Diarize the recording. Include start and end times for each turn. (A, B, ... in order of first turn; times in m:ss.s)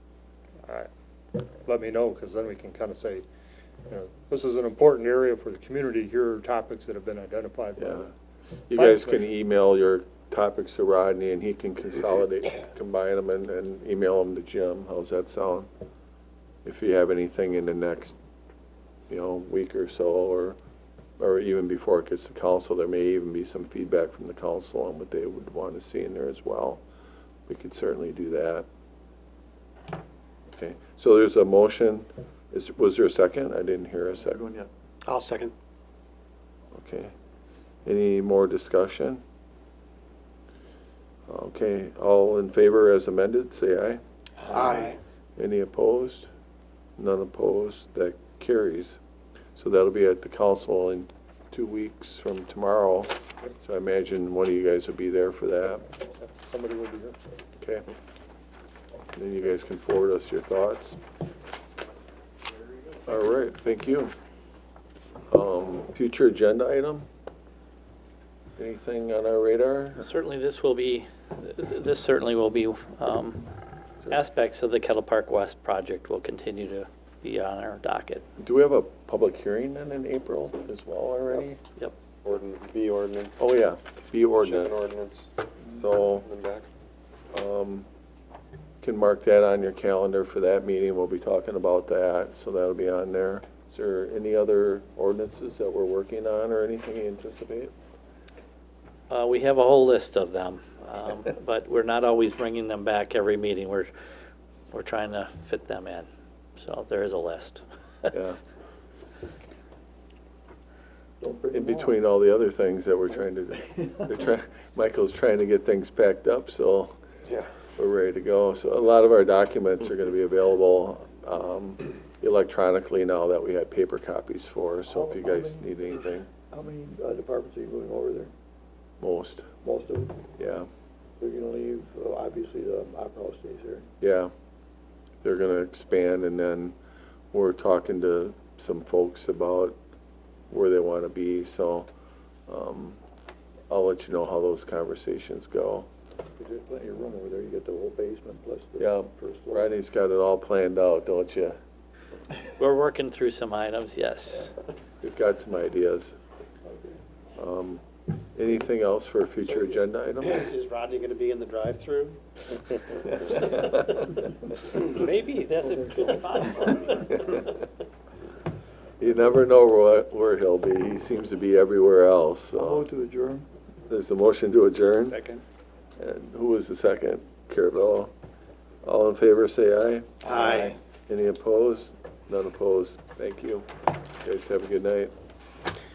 0:01.7-0:03.2 A
0:03.9-0:08.1 A
0:07.8-0:08.1 B
0:08.7-0:15.7 B
0:08.8-0:09.2 A
0:16.6-0:18.2 B
0:19.1-0:20.6 B
0:21.2-0:26.8 B
0:27.5-0:28.7 B
0:30.5-0:34.6 B
0:34.4-0:34.7 C
0:35.1-0:35.5 D
0:36.7-0:37.1 B
0:37.9-0:39.2 B
0:41.3-0:44.8 B
0:44.5-0:45.0 D
0:45.4-0:46.3 B
0:47.0-0:49.0 B
0:49.6-0:55.8 B
0:56.2-0:57.2 A
0:59.2-1:01.0 B
1:03.1-1:04.1 B
1:05.3-1:07.1 B
1:08.6-1:10.0 B
1:10.0-1:13.5 E
1:14.1-1:18.2 E
1:18.4-1:21.6 B
1:22.2-1:23.4 F
1:23.4-1:24.9 B
1:24.4-1:25.3 F
1:25.7-1:26.3 B
1:26.2-1:26.7 F
1:27.3-1:27.9 B
1:28.8-1:37.7 B
1:39.1-1:43.9 E
1:44.7-1:47.6 E
1:48.1-1:48.4 B
1:51.2-1:52.0 C
1:51.5-1:57.0 B
1:57.8-2:06.3 B
2:04.9-2:08.3 C
2:09.0-2:09.5 B
2:09.6-2:10.2 C
2:10.4-2:10.7 B
2:11.2-2:13.9 C
2:14.0-2:14.3 B
2:15.2-2:16.8 B
2:17.3-2:19.8 B
2:20.5-2:21.9 B
2:22.5-2:23.0 B
2:23.7-2:25.9 B
2:26.4-2:29.7 C
2:28.8-2:31.6 B
2:32.6-2:34.5 E
2:35.0-2:36.2 B
2:36.7-2:37.0 C
2:37.4-2:37.8 B
2:38.4-2:40.5 B
2:39.5-2:42.2 D
2:43.0-2:43.8 D
2:43.5-2:44.0 B
2:44.7-2:47.4 E
2:49.0-2:52.9 B
2:52.6-2:53.5 C
2:53.9-2:55.2 B
2:56.0-2:58.1 B
2:58.8-3:00.3 B
3:00.2-3:00.8 D
3:01.1-3:03.7 B
3:04.2-3:05.1 B